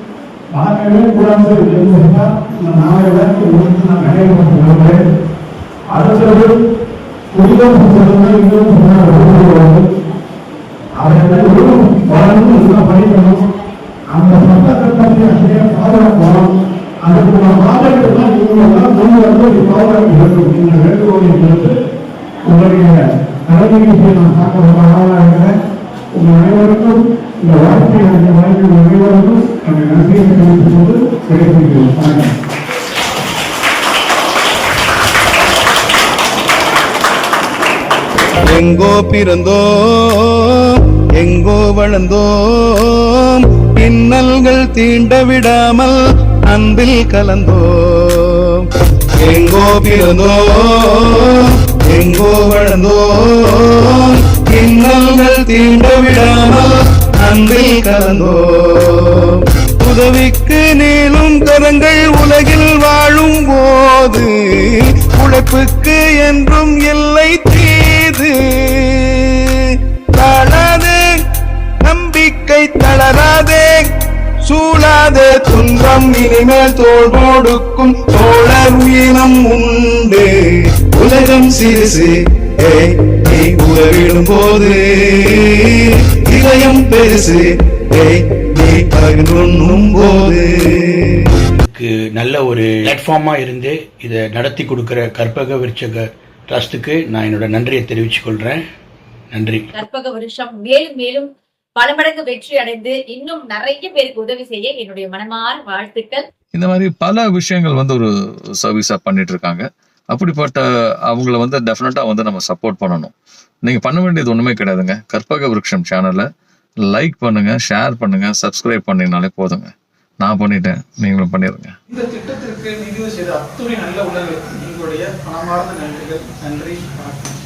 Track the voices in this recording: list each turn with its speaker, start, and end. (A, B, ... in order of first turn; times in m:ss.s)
0:00.5-0:05.0 A
0:05.9-0:06.6 A
0:07.3-0:09.9 A
0:11.0-0:13.4 A
0:14.1-0:21.8 A
0:22.5-0:25.6 A
0:26.1-0:32.3 A
0:38.4-1:11.0 B
1:11.8-1:13.8 B
1:14.4-1:20.3 B
1:20.9-1:31.3 B
1:31.7-1:38.6 C
1:39.3-1:39.6 C
1:39.7-1:46.3 D
1:46.5-1:48.1 E
1:48.6-1:56.2 E
1:56.8-2:01.7 E
2:01.9-2:07.3 F